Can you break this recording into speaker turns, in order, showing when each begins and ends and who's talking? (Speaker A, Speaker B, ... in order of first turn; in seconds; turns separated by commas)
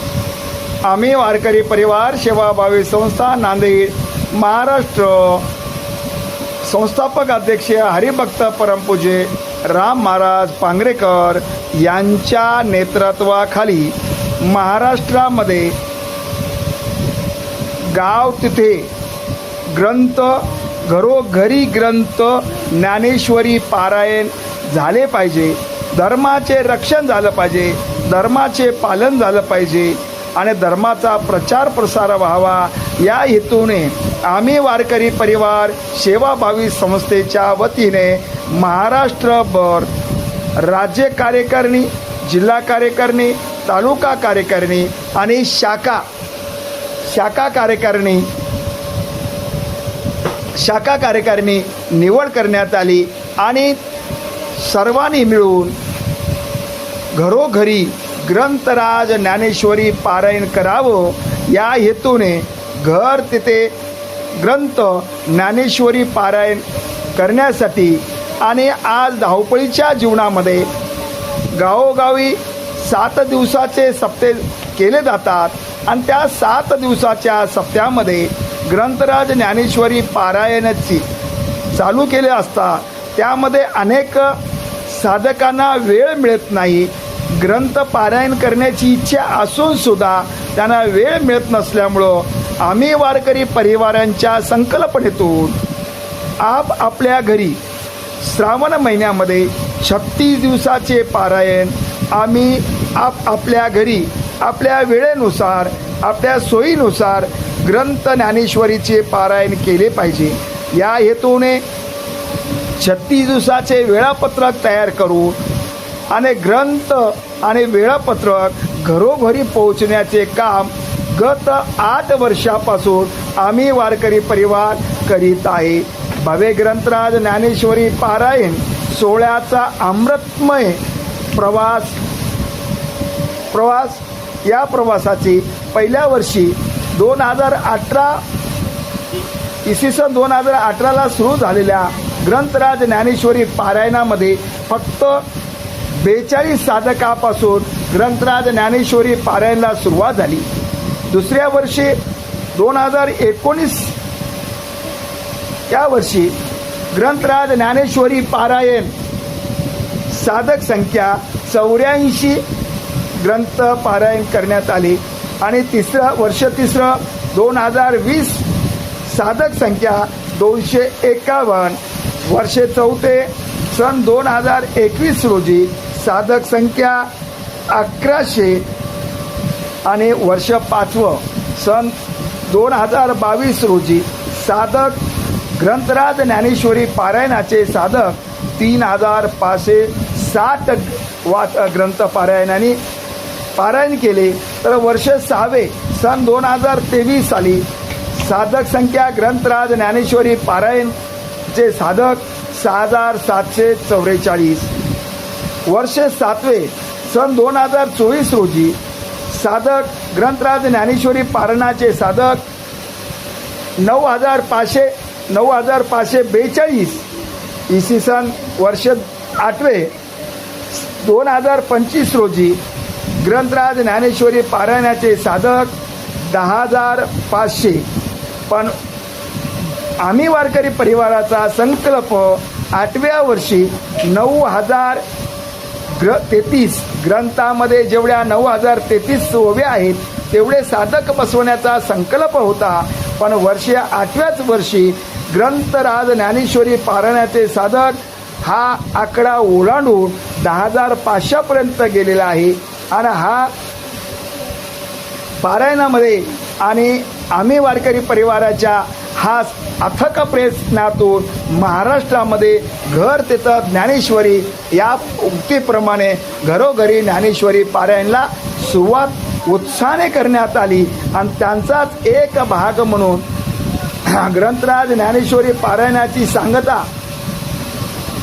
Speaker A: 0.8-5.5, Speaker A: 6.6-15.8, Speaker A: 17.9-18.9, Speaker A: 19.7-39.9, Speaker A: 40.6-46.0, Speaker A: 47.1-48.3, Speaker A: 50.6-53.8, Speaker A: 54.6-55.8, Speaker A: 57.1-63.7, Speaker A: 64.4-70.7, Speaker A: 71.5-81.1, Speaker A: 81.7-95.6, Speaker A: 96.4-97.6, Speaker A: 98.2-111.6, Speaker A: 112.8-115.4, Speaker A: 116.1-130.8, Speaker A: 131.3-132.0, Speaker A: 133.5-138.2, Speaker A: 139.7-145.2, Speaker A: 145.9-150.5, Speaker A: 151.1-152.0, Speaker A: 152.5-154.0, Speaker A: 155.7-156.3, Speaker A: 156.9-158.9, Speaker A: 160.1-162.4, Speaker A: 163.2-168.4, Speaker A: 169.1-177.1, Speaker A: 177.7-178.7, Speaker A: 179.8-182.0, Speaker A: 182.5-185.0, Speaker A: 185.6-192.8, Speaker A: 193.6-201.0, Speaker A: 201.5-204.7, Speaker A: 205.7-208.8, Speaker A: 209.3-212.4, Speaker A: 213.8-217.1, Speaker A: 217.7-219.9, Speaker A: 220.7-222.6, Speaker A: 223.2-225.7, Speaker A: 226.3-227.9, Speaker A: 228.5-228.8, Speaker A: 230.0-235.0, Speaker A: 236.0-253.5, Speaker A: 255.4-273.2, Speaker A: 274.1-276.9